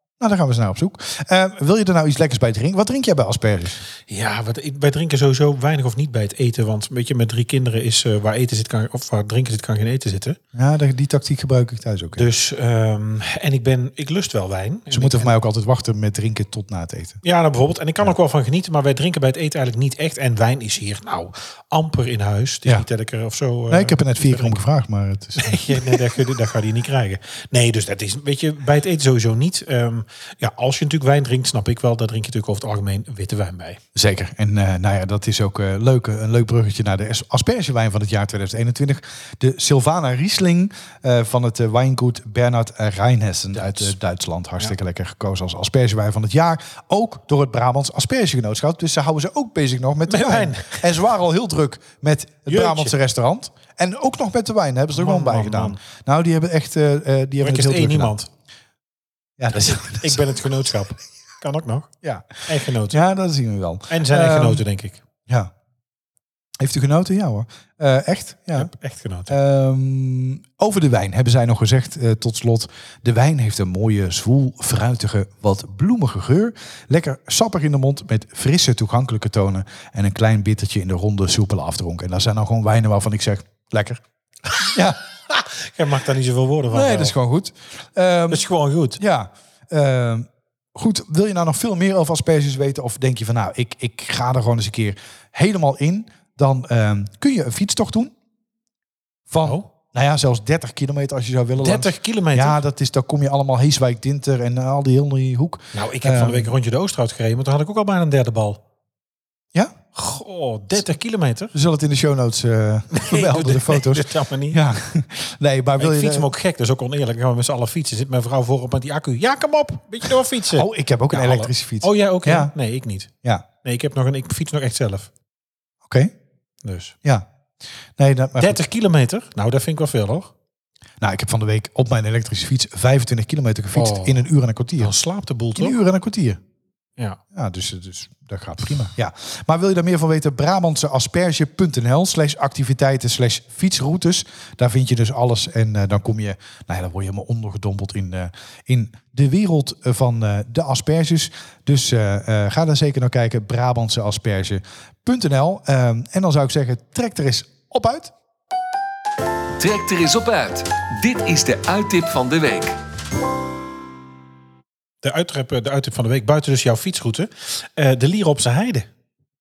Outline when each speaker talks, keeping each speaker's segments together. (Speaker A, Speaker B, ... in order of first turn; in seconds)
Speaker A: 0.2-3.8, 10.5-12.2, 14.9-17.2, 23.7-26.0, 33.9-58.1, 59.4-60.3, 62.0-64.6, 66.6-68.7, 69.3-84.0, 84.6-85.0, 86.7-88.5, 89.0-98.1, 99.3-106.5, 111.5-116.3, 120.5-122.5, 125.8-126.1, 128.0-128.6, 131.0-134.9, 135.6-136.4, 137.3-158.1
Speaker B: 4.1-10.4, 12.2-15.3, 17.2-24.6, 25.4-33.8, 43.5-43.9, 50.1-50.9, 52.5-52.9, 54.9-55.8, 57.4-58.3, 59.5-61.9, 62.5-63.0, 63.9-65.0, 68.5-69.3, 85.3-87.1, 88.3-89.0, 101.6-102.6, 105.7-108.6, 109.9-111.5, 112.9-114.6, 115.8-123.1, 123.6-125.1, 126.6-126.9, 128.4-130.3, 133.7-134.2, 134.8-135.8, 165.0-168.9
Speaker C: 159.6-162.8